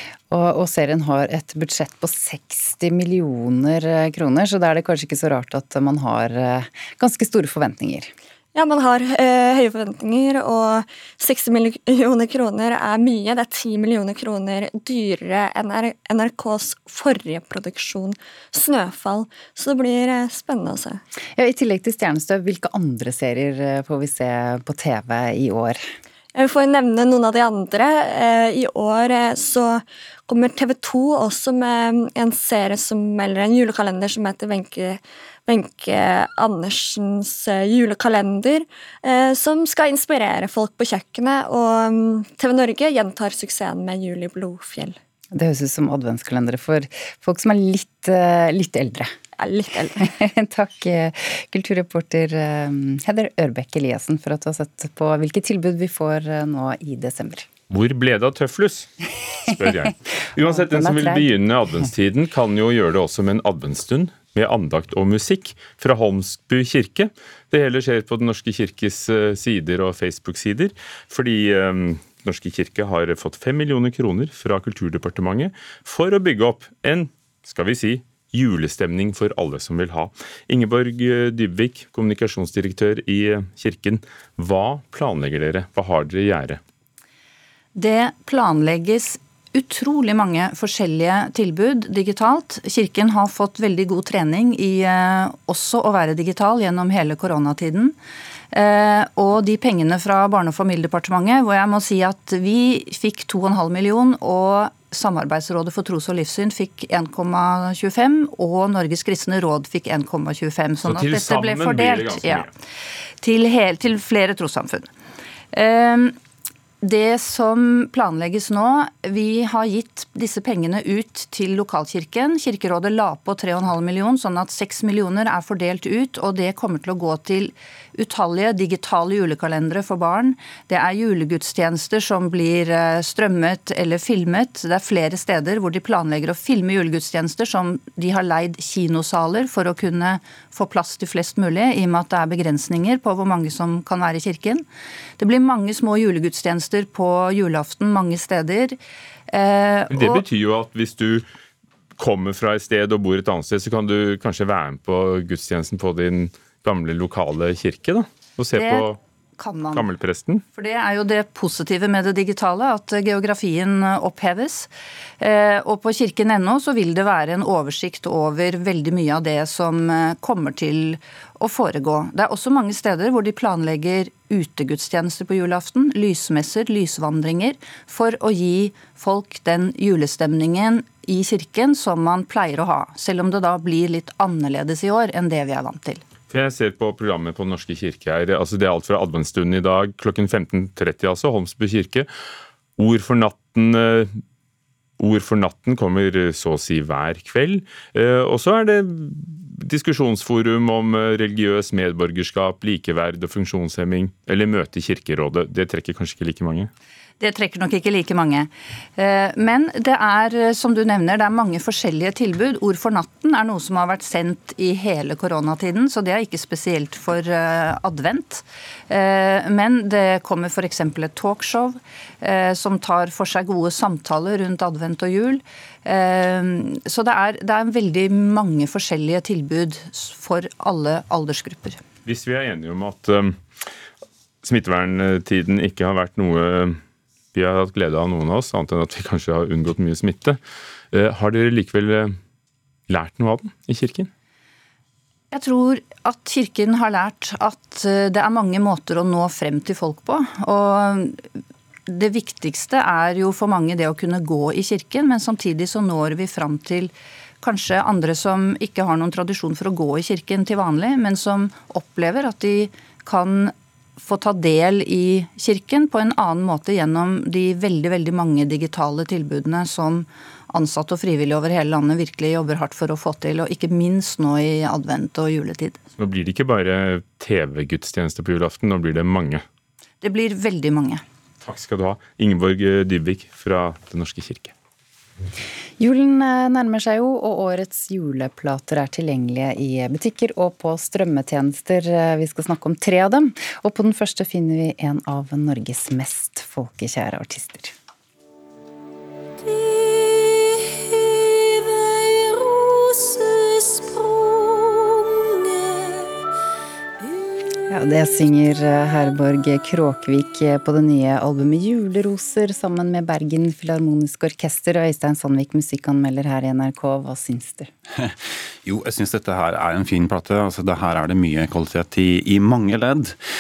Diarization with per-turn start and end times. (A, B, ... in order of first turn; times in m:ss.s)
0:00.3-0:08.1 A
0:08.6-0:21.0 B
0:21.4-0:25.8 A
0:26.4-0:45.0 B
0:45.3-0:49.1 A
0:49.4-0:50.1 B
0:50.0-0:57.5 A
0:57.7-0:58.9 C
0:59.5-1:26.6 C
1:00.4-1:01.3 A
1:27.8-1:38.0 D
1:38.5-1:52.5 D
1:50.8-1:52.5 C
1:53.2-1:54.9 D
1:55.5-1:56.2 D
1:56.8-2:24.6 D
2:25.2-2:28.8 D
2:29.3-2:30.2 D
2:29.9-2:31.2 C
2:32.0-2:39.0 C
2:38.6-2:39.9 D
2:39.8-2:40.4 C
2:40.6-2:44.7 D
2:45.2-3:06.0 D
3:06.3-3:12.1 C
3:12.8-3:14.2 C
3:15.0-3:26.7 C
3:27.2-3:51.8 D
3:52.0-3:53.4 C
3:54.4-3:56.8 C
3:57.3-4:00.4 C
4:00.9-4:02.2 C
4:02.9-4:04.1 C
4:05.3-4:11.2 D
4:11.9-4:35.8 D
4:36.0-4:39.4 C
4:40.0-4:41.0 D
4:41.4-4:44.5 C
4:45.8-4:57.7 A
5:07.7-5:17.7 A
5:18.0-5:23.2 E